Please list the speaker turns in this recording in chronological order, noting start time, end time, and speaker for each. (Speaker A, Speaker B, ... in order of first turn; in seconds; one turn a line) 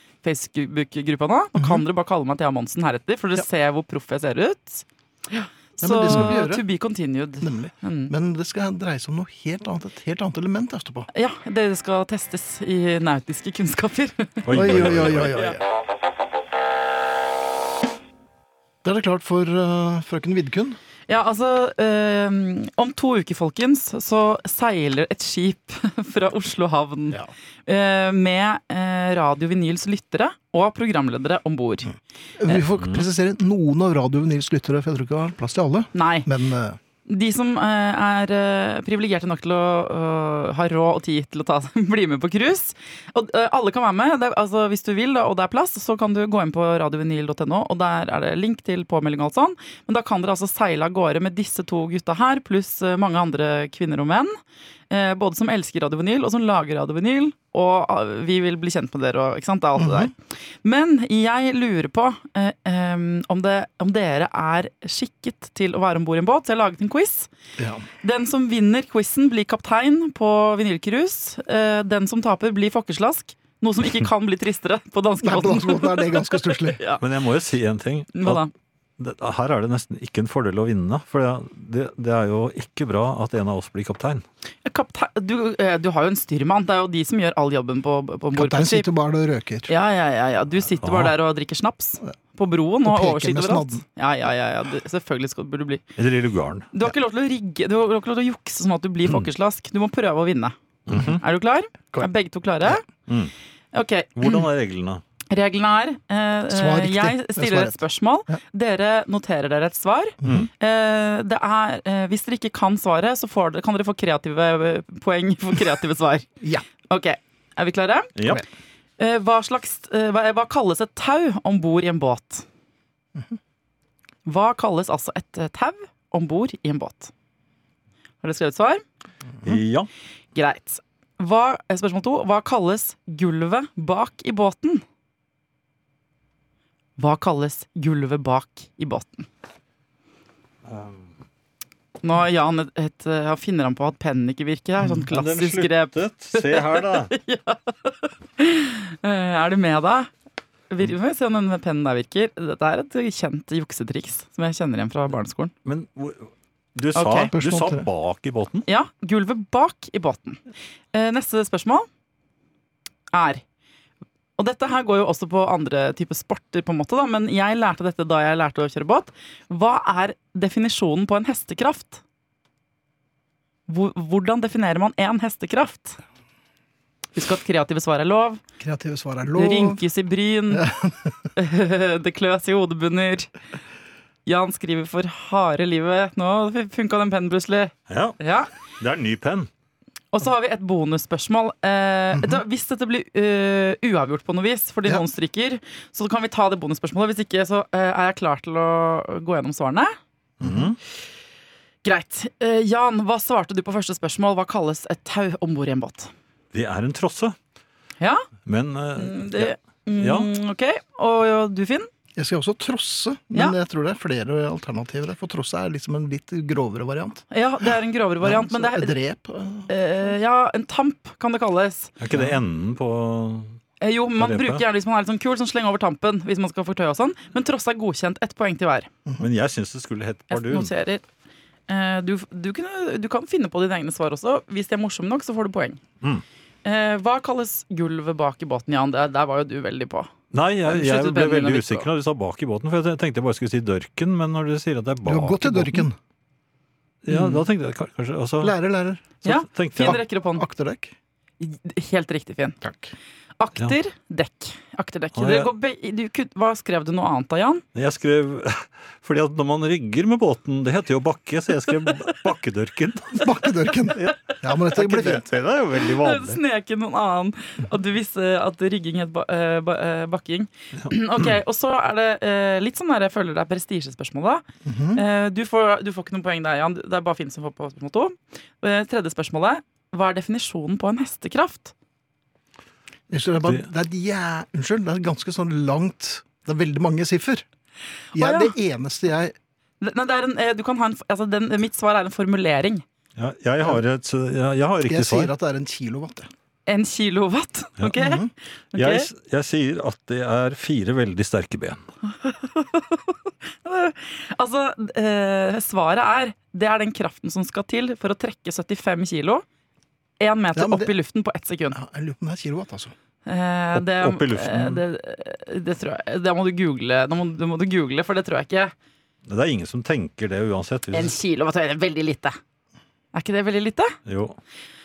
Speaker A: 0.2-8.1
Speaker B: 1.6-1.8
Speaker B: 5.8-6.6
Speaker B: 7.4-11.1
Speaker A: 11.1-15.6
Speaker C: 14.5-15.3
Speaker B: 14.5-15.6
Speaker B: 18.8-20.8
Speaker A: 21.1-31.9
Speaker B: 32.4-36.8
Speaker C: 32.8-33.0
Speaker A: 35.9-36.3
Speaker A: 37.1-54.4
Speaker A: 54.9-67.3
Speaker B: 59.8-60.1
Speaker B: 67.6-67.8
Speaker A: 68.0-77.0
Speaker B: 75.2-76.8
Speaker C: 77.0-78.5
Speaker A: 78.2-78.5
Speaker C: 79.0-84.2
Speaker A: 84.7-88.9
Speaker B: 88.3-89.7
Speaker A: 89.7-95.8
Speaker C: 90.8-91.2
Speaker B: 92.8-93.8
Speaker C: 96.0-96.7
Speaker A: 96.7-102.8
Speaker C: 100.9-101.2
Speaker C: 103.1-103.3
Speaker A: 103.7-104.4
Speaker C: 104.2-105.0
Speaker A: 105.3-116.3
Speaker B: 106.5-108.4
Speaker B: 110.2-110.5
Speaker C: 110.2-110.5
Speaker A: 116.9-118.2
Speaker C: 118.2-118.4
Speaker A: 119.0-122.5
Speaker A: 124.2-127.1
Speaker A: 128.2-128.8
Speaker C: 129.4-129.9
Speaker A: 130.3-134.8
Speaker A: 137.0-139.3
Speaker C: 140.7-141.1
Speaker A: 142.0-150.1
Speaker C: 144.9-147.1
Speaker A: 150.7-155.5
Speaker C: 155.7-158.7
Speaker A: 156.9-157.3
Speaker B: 157.3-157.9
Speaker A: 158.7-161.9
Speaker A: 163.1-163.4
Speaker A: 164.4-172.0
Speaker A: 173.7-176.0
Speaker A: 177.2-178.4
Speaker B: 178.6-179.8
Speaker A: 179.3-180.7
Speaker B: 180.5-181.3
Speaker A: 181.3-183.3
Speaker A: 184.3-188.5
Speaker C: 187.9-188.2
Speaker C: 188.8-189.5
Speaker A: 190.1-199.9
Speaker B: 200.4-200.7
Speaker C: 200.4-200.8
Speaker A: 201.8-206.1
Speaker C: 206.5-207.4
Speaker A: 208.0-208.3
Speaker C: 208.4-210.3
Speaker A: 209.0-211.9
Speaker B: 212.2-217.2
Speaker A: 217.3-219.0
Speaker B: 218.2-219.7
Speaker A: 219.7-221.9
Speaker C: 222.0-223.6
Speaker B: 222.1-222.4
Speaker A: 223.8-228.9
Speaker C: 224.2-224.6
Speaker C: 229.2-230.7
Speaker A: 230.3-231.0
Speaker A: 231.7-235.8
Speaker A: 236.6-240.1
Speaker C: 240.3-245.9
Speaker A: 240.7-241.9
Speaker B: 245.1-246.0
Speaker C: 247.1-248.6
Speaker B: 247.1-247.4
Speaker B: 248.4-249.2
Speaker A: 249.2-250.4
Speaker C: 249.2-250.0
Speaker B: 249.8-250.9
Speaker A: 251.4-252.6
Speaker B: 252.6-252.9
Speaker A: 253.4-257.6
Speaker C: 255.2-255.5
Speaker C: 257.8-264.1
Speaker B: 263.2-265.3
Speaker C: 264.7-266.4
Speaker A: 265.8-281.7
Speaker B: 274.6-275.0
Speaker B: 283.1-287.4
Speaker B: 288.1-289.4
Speaker A: 288.1-288.5
Speaker A: 289.8-292.8
Speaker C: 293.2-295.3
Speaker B: 294.9-296.3
Speaker A: 296.7-298.2
Speaker B: 297.9-298.3
Speaker A: 298.7-299.1
Speaker C: 298.8-301.8
Speaker A: 302.2-309.4
Speaker A: 310.2-311.8
Speaker B: 310.6-310.9
Speaker B: 311.7-312.9
Speaker A: 313.3-318.7
Speaker C: 313.8-314.8
Speaker C: 319.3-321.1
Speaker A: 320.9-322.4
Speaker A: 323.1-324.0
Speaker C: 324.1-324.4